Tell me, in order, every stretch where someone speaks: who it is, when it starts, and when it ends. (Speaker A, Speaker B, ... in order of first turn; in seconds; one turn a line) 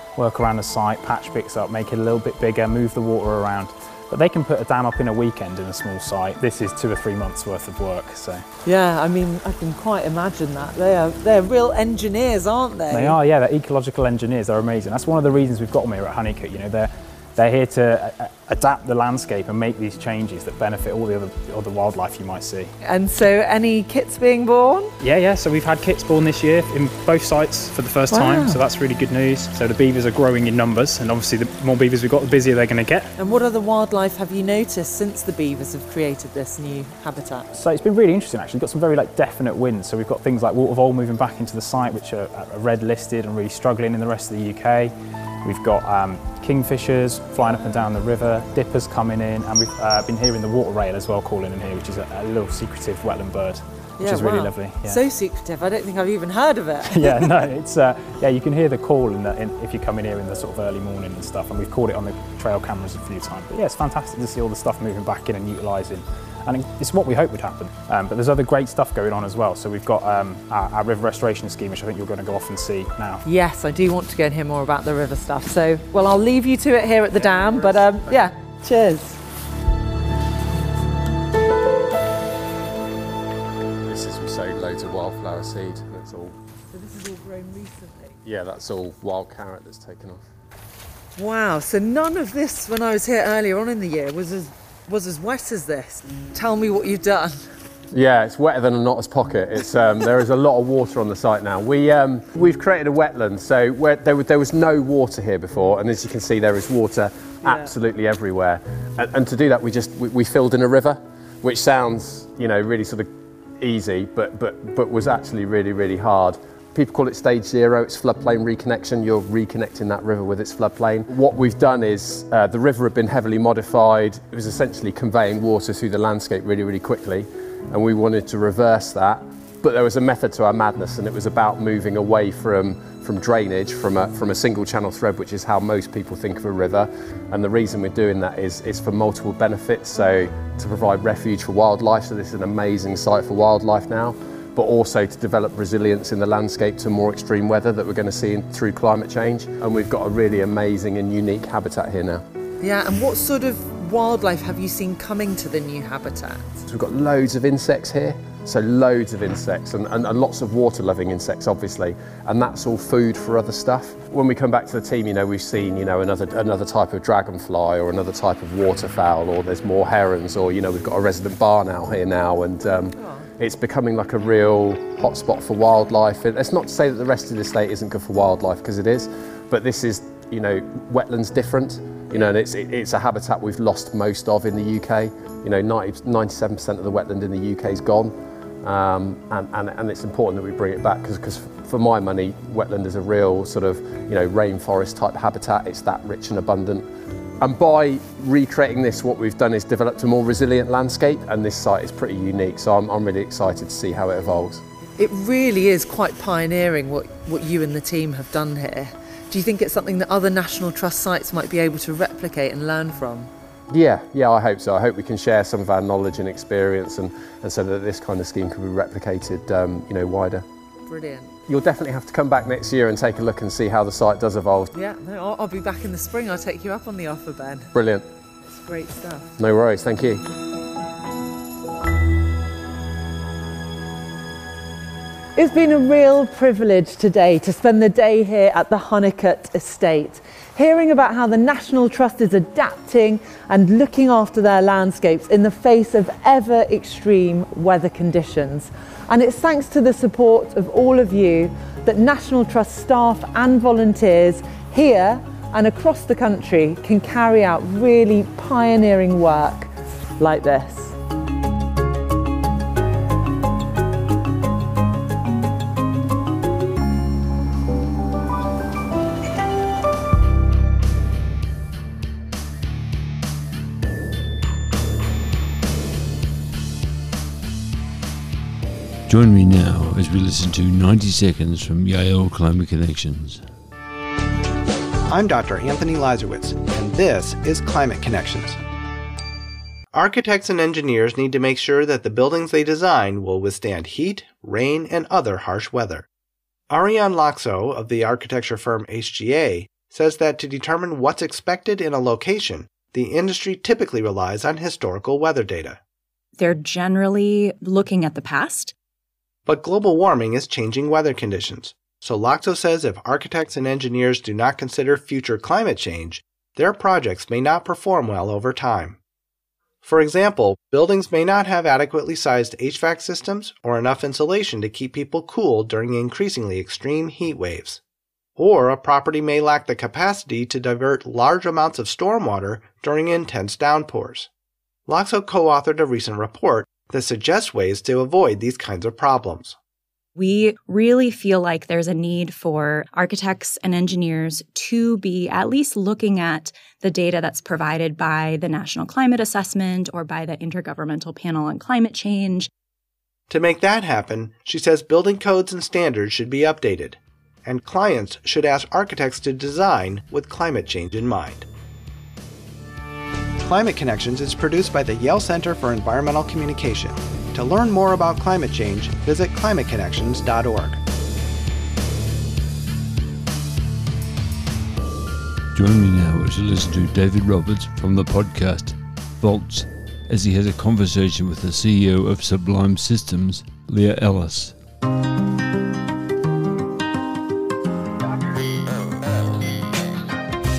Speaker A: 0.2-8.4
Speaker B: 8.7-13.2
Speaker A: 12.9-22.7
Speaker B: 22.8-24.9
Speaker A: 25.0-33.1
Speaker B: 28.1-28.6
Speaker B: 33.2-37.5
Speaker A: 37.5-55.0
Speaker B: 54.0-57.3
Speaker A: 56.9-73.2
Speaker B: 73.2-79.2
Speaker A: 77.3-77.8
Speaker C: 83.9-86.4
Speaker B: 86.7-88.2
Speaker C: 88.2-90.2
Speaker B: 91.2-97.5
Speaker C: 97.9-152.2
Speaker B: 107.5-107.7
Speaker B: 152.6-156.6
Speaker C: 156.7-196.9
Speaker B: 173.0-173.3
Speaker C: 197.4-204.6
Speaker B: 205.0-213.3
Speaker C: 213.7-220.4
Speaker B: 220.9-221.3
Speaker C: 221.5-224.7
Speaker B: 224.7-227.7
Speaker C: 227.7-228.1
Speaker B: 228.5-229.3
Speaker C: 229.4-230.3
Speaker B: 235.4-261.0
Speaker D: 279.1-283.4
Speaker E: 285.1-288.6
Speaker E: 289.9-296.1
Speaker E: 296.7-305.8
Speaker F: 306.4-308.7
Speaker E: 309.5-319.0
Speaker E: 319.8-327.8
Speaker E: 328.4-334.3
Speaker E: 334.9-339.6
Speaker F: 340.2-352.5
Speaker E: 353.3-361.5
Speaker E: 363.4-370.8
Speaker D: 375.5-384.6